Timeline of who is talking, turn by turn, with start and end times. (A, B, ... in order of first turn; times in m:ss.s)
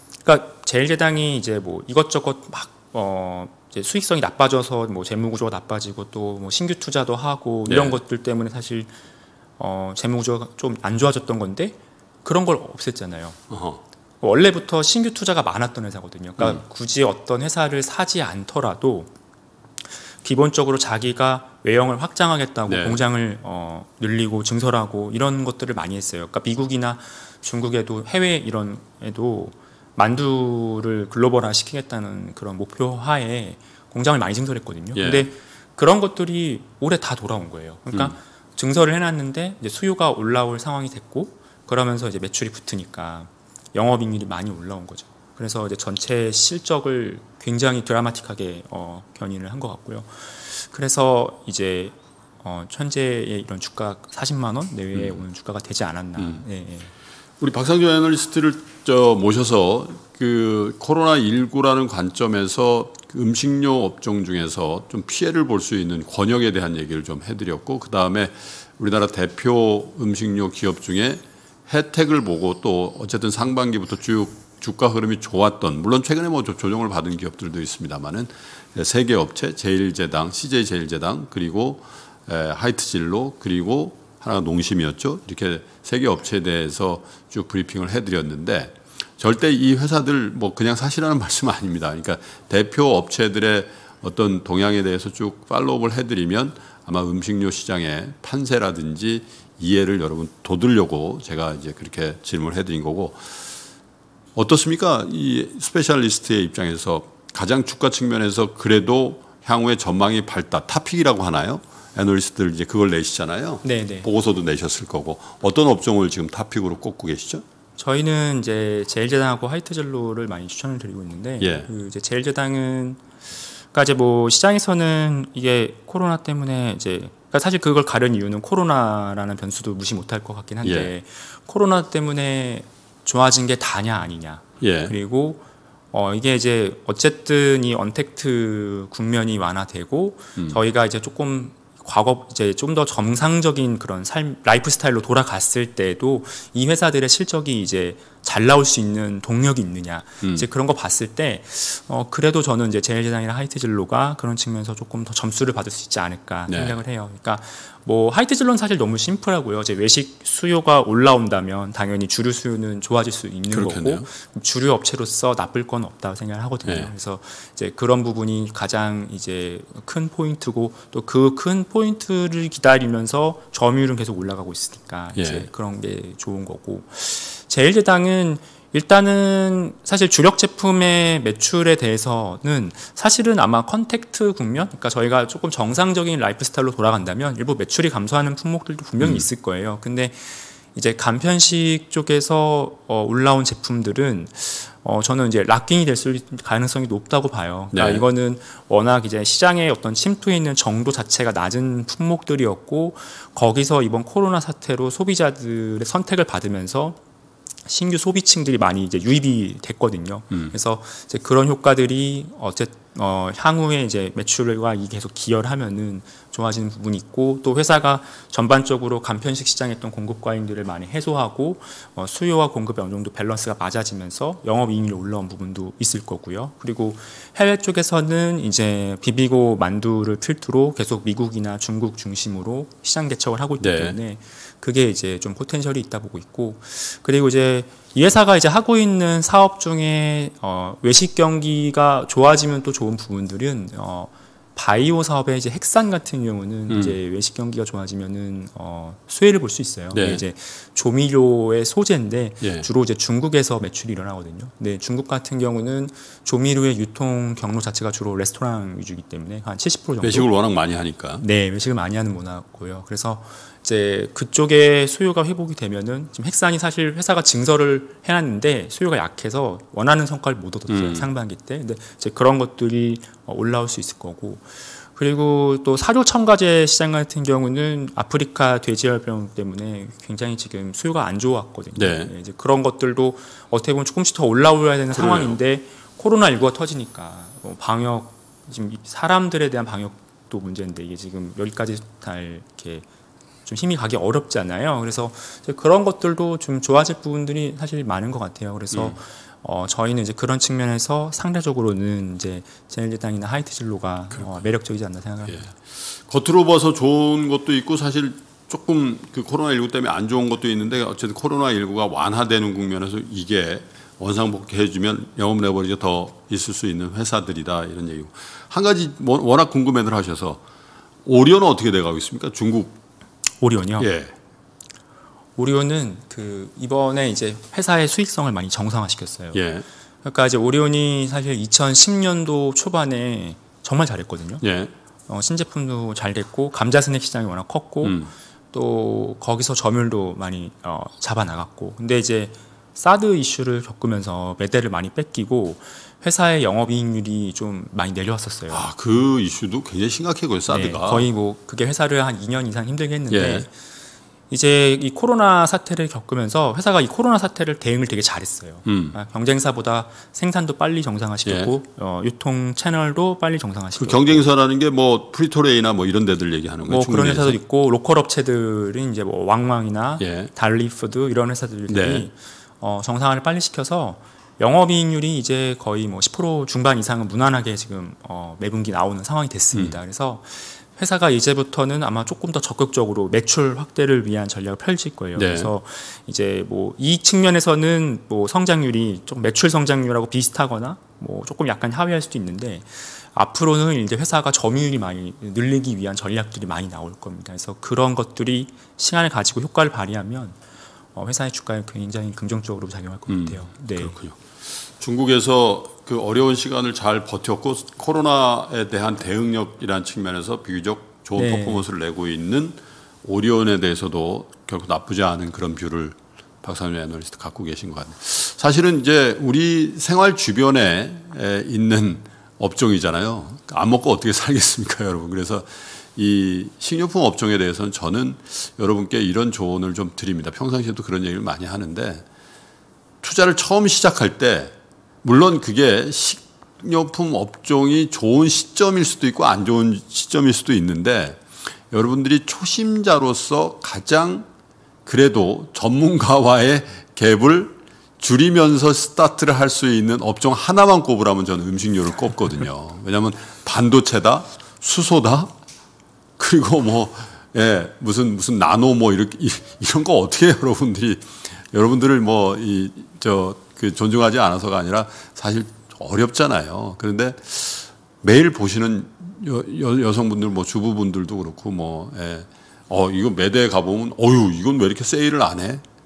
0:00.2-0:08.9 A
0:07.7-0:08.0 B
0:09.6-0:13.4 A
0:13.5-0:13.8 B
0:14.2-0:19.1 A
0:20.2-0:56.9 A
0:22.7-0:23.0 B
0:34.9-0:35.3 B
0:54.9-0:55.2 B
0:56.2-0:56.4 B
0:57.4-1:43.4 B
1:44.3-1:57.4 B
1:53.6-1:54.1 A
1:57.8-2:03.0 A
2:01.4-2:01.7 B
2:03.7-3:27.0 A
2:10.6-2:10.9 B
2:14.6-2:14.9 B
2:36.5-2:36.8 B
2:43.5-2:44.0 B
2:46.6-2:46.9 B
2:55.1-2:55.5 B
3:09.0-3:09.2 B
3:17.7-3:18.0 B
3:27.6-4:20.3 A
3:53.6-3:54.0 B
4:06.7-4:07.0 B
4:09.9-4:10.2 B
4:20.0-4:21.2 B
4:21.2-4:52.8 A
4:30.7-4:31.1 B
4:41.8-4:42.1 B
4:44.9-4:45.4 B
4:53.4-5:05.5 A
5:05.3-5:20.4 B
5:21.0-5:22.8 B
5:23.4-5:23.9 A
5:23.8-5:24.1 B
5:25.4-5:29.4 A
5:29.3-5:29.6 B
5:30.0-5:34.4 A
5:34.4-5:34.7 B
5:35.1-5:48.7 A
5:37.8-5:38.1 B
5:48.5-5:51.1 B
5:50.5-5:53.5 A
5:53.1-5:53.4 B
5:54.3-6:04.2 A
5:58.6-5:58.9 B
6:01.2-6:01.5 B
6:03.8-6:07.4 B
6:06.6-6:40.4 A
6:10.0-6:10.3 B
6:11.7-6:12.1 B
6:25.2-6:25.5 B
6:40.9-6:44.0 A
6:43.1-7:12.0 B
6:51.2-6:51.7 A
7:13.0-7:24.3 B
7:24.8-7:35.3 B
7:36.2-7:55.6 B